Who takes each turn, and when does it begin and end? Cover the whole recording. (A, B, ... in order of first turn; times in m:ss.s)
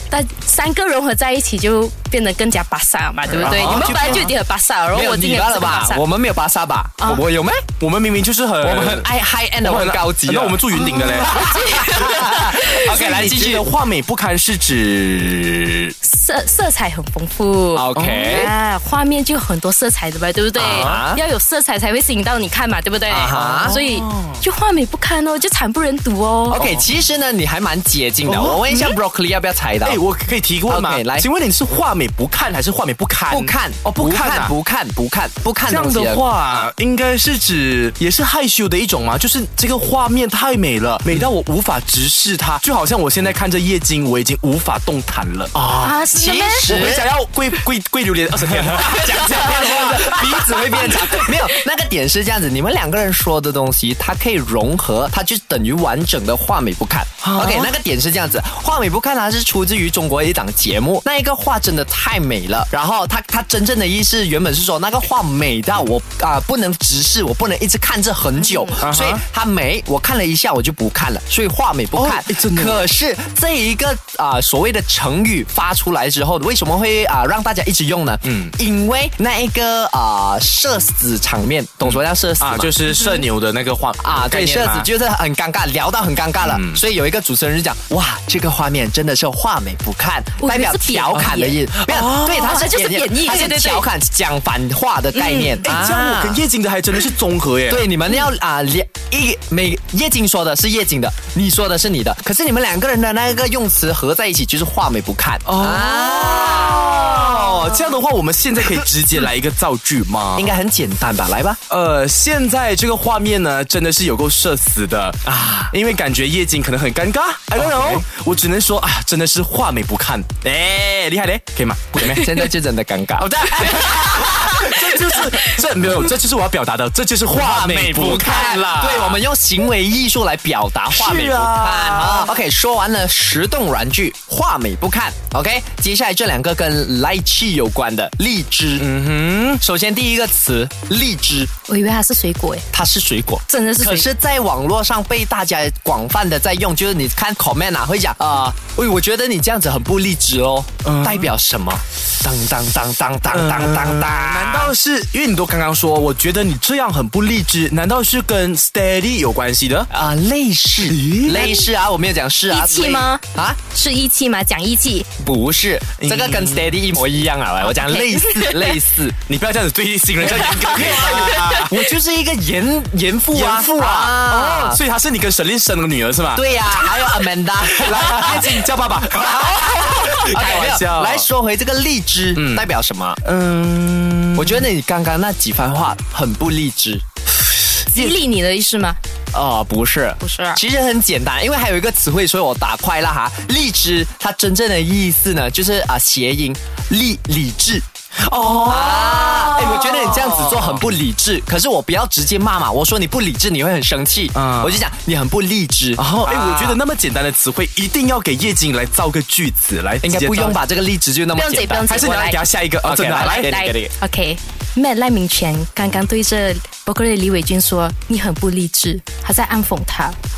0:00.1-0:06.0 A
0:03.3-0:04.3 B
0:03.4-0:04.3 C
0:04.9-0:07.6 B
0:07.8-0:09.1 C
0:08.6-0:13.7 B
0:09.6-0:11.4 C
0:10.7-0:12.9 A
0:12.8-0:15.9 C
0:16.0-0:26.6 A
0:17.7-0:18.5 B
0:17.9-0:18.5 C
0:20.5-0:21.2 B
0:20.6-0:21.0 C
0:23.1-0:23.8 B
0:23.3-0:24.4 C
0:26.5-0:30.0 B
0:26.5-0:26.9 C
0:28.2-0:29.0 C
0:29.8-0:34.5 C
0:30.7-0:31.3 B
0:33.3-0:36.7 B
0:35.7-0:45.5 C
0:45.5-0:47.1 B
0:45.8-0:46.7 A
0:46.6-0:51.5 C
0:48.5-1:22.9 B
0:57.2-0:57.7 C
1:08.4-1:08.8 A
1:08.8-1:09.2 C
1:11.9-1:12.9 C
1:18.2-1:18.5 C
1:21.8-1:24.9 C
1:24.0-1:36.4 B
1:26.4-1:26.8 C
1:30.4-1:33.9 A
1:31.9-1:32.4 C
1:35.1-1:35.6 A
1:35.6-1:37.8 C
1:37.7-1:47.9 B
1:45.4-1:50.5 C
1:50.4-1:51.6 B
1:51.7-2:02.5 C
1:55.2-1:55.7 B
1:57.6-1:58.0 B
2:01.9-2:04.6 B
2:03.2-2:09.2 C
2:07.3-2:18.9 B
2:10.9-2:12.3 C
2:18.8-2:19.6 C
2:19.6-2:21.5 B
2:21.7-2:22.6 A
2:22.7-2:34.7 B
2:23.5-2:24.1 A
2:30.8-2:31.3 C
2:33.3-2:39.9 C
2:39.9-2:43.6 B
2:40.8-2:41.6 C
2:41.4-2:41.6 A
2:42.5-2:45.1 A
2:45.2-2:49.2 B
2:46.0-2:46.8 C
2:47.6-2:48.8 A
2:49.3-2:51.8 C
2:50.2-2:54.8 B
2:50.5-2:51.6 A
2:53.3-3:01.3 C
2:56.3-3:03.2 B
3:02.4-3:02.7 C
3:03.2-3:04.7 C
3:04.4-3:07.0 B
3:07.9-3:09.0 A
3:09.3-3:17.8 B
3:10.2-3:10.6 A
3:18.2-3:20.8 C
3:18.6-3:26.8 B
3:24.3-3:24.8 C
3:26.0-3:30.6 C
3:30.0-3:32.0 B
3:31.3-3:32.4 A
3:31.9-3:33.7 C
3:32.8-3:33.9 B
3:33.1-3:40.2 A